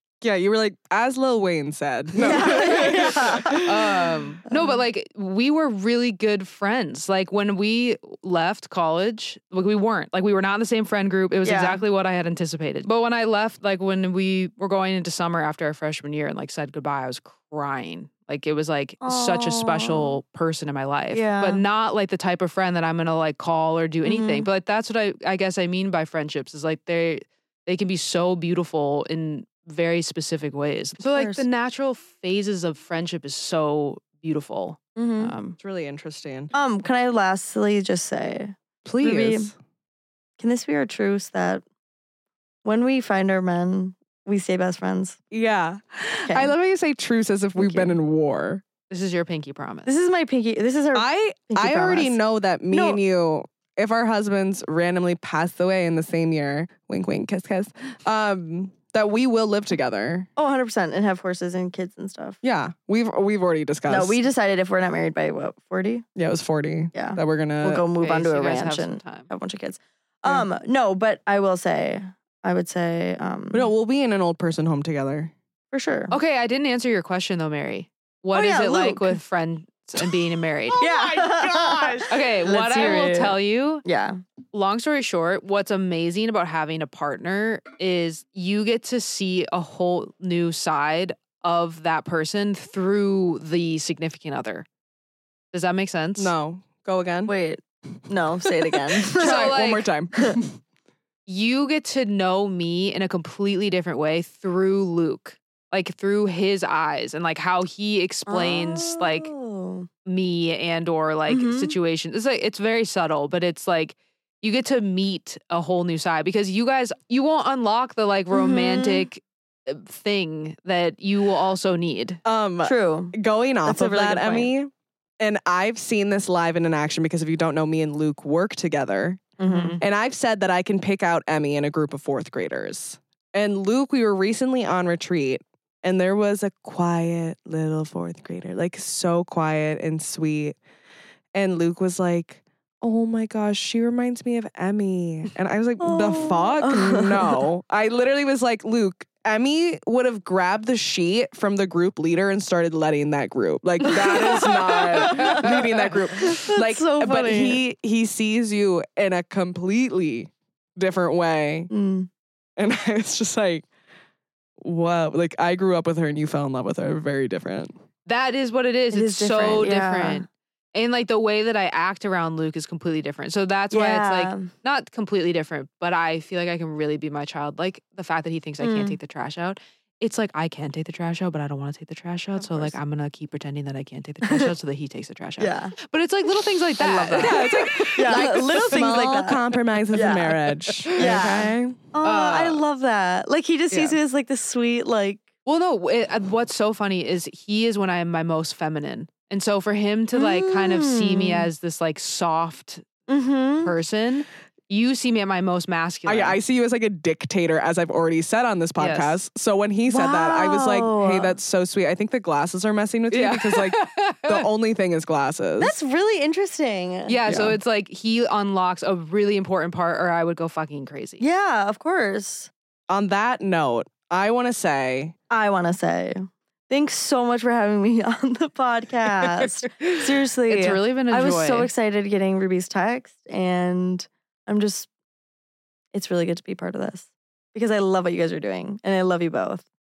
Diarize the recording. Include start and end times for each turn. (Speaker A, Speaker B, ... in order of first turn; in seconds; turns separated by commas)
Speaker A: 0.2-4.1, Speaker B: 2.2-3.7, Speaker C: 3.6-35.6, Speaker B: 4.5-4.8, Speaker B: 11.4-11.8, Speaker B: 19.0-20.2, Speaker B: 21.1-21.6, Speaker B: 24.1-24.5, Speaker B: 31.1-31.4, Speaker B: 35.0-35.3, Speaker A: 35.6-36.5, Speaker B: 36.5-39.5, Speaker A: 38.9-39.5, Speaker B: 40.4-41.6, Speaker B: 42.6-45.2, Speaker A: 45.3-48.6, Speaker B: 46.3-46.5, Speaker B: 47.6-48.0, Speaker C: 48.9-49.9, Speaker B: 49.9-52.2, Speaker A: 50.9-60.3, Speaker B: 52.7-53.0, Speaker B: 60.4-62.4, Speaker A: 62.4-64.2, Speaker B: 63.9-66.0, Speaker A: 66.2-67.9, Speaker B: 66.9-73.7, Speaker C: 68.0-69.3, Speaker A: 73.5-75.3, Speaker B: 75.7-76.1, Speaker C: 76.1-80.8, Speaker B: 78.3-79.2, Speaker A: 80.7-82.2, Speaker B: 80.8-84.2, Speaker C: 82.1-83.8, Speaker C: 84.5-94.7, Speaker C: 95.5-96.3, Speaker A: 96.2-97.3, Speaker B: 97.3-99.6, Speaker A: 98.5-100.6, Speaker C: 99.1-99.9, Speaker C: 101.3-109.3, Speaker B: 108.3-109.9, Speaker C: 110.1-122.2, Speaker B: 111.3-111.8, Speaker B: 118.3-119.1, Speaker A: 122.2-140.6, Speaker B: 122.6-124.5, Speaker B: 129.4-129.8, Speaker C: 129.4-129.8, Speaker A: 141.3-161.7, Speaker B: 145.8-147.5, Speaker B: 153.8-157.6, Speaker B: 161.7-162.1, Speaker A: 162.6-163.7, Speaker A: 164.6-167.7, Speaker C: 168.1-188.3, Speaker B: 168.9-170.3, Speaker B: 173.7-174.5, Speaker B: 178.6-179.0, Speaker B: 182.4-182.8, Speaker B: 184.2-184.5, Speaker B: 185.4-185.8, Speaker B: 186.8-190.4, Speaker A: 187.2-191.9, Speaker B: 190.9-195.3, Speaker C: 190.9-191.2, Speaker C: 192.0-192.6, Speaker C: 193.7-194.0, Speaker C: 195.5-202.9, Speaker B: 200.1-201.5, Speaker B: 203.1-203.7, Speaker C: 203.6-206.4, Speaker A: 206.1-215.8, Speaker C: 208.8-209.2, Speaker B: 209.9-211.4, Speaker C: 213.1-214.5, Speaker B: 215.6-217.2, Speaker C: 217.1-221.2, Speaker A: 217.3-217.6, Speaker B: 221.2-222.5, Speaker A: 222.9-225.2, Speaker B: 225.3-234.9, Speaker C: 229.8-231.7, Speaker B: 235.9-239.7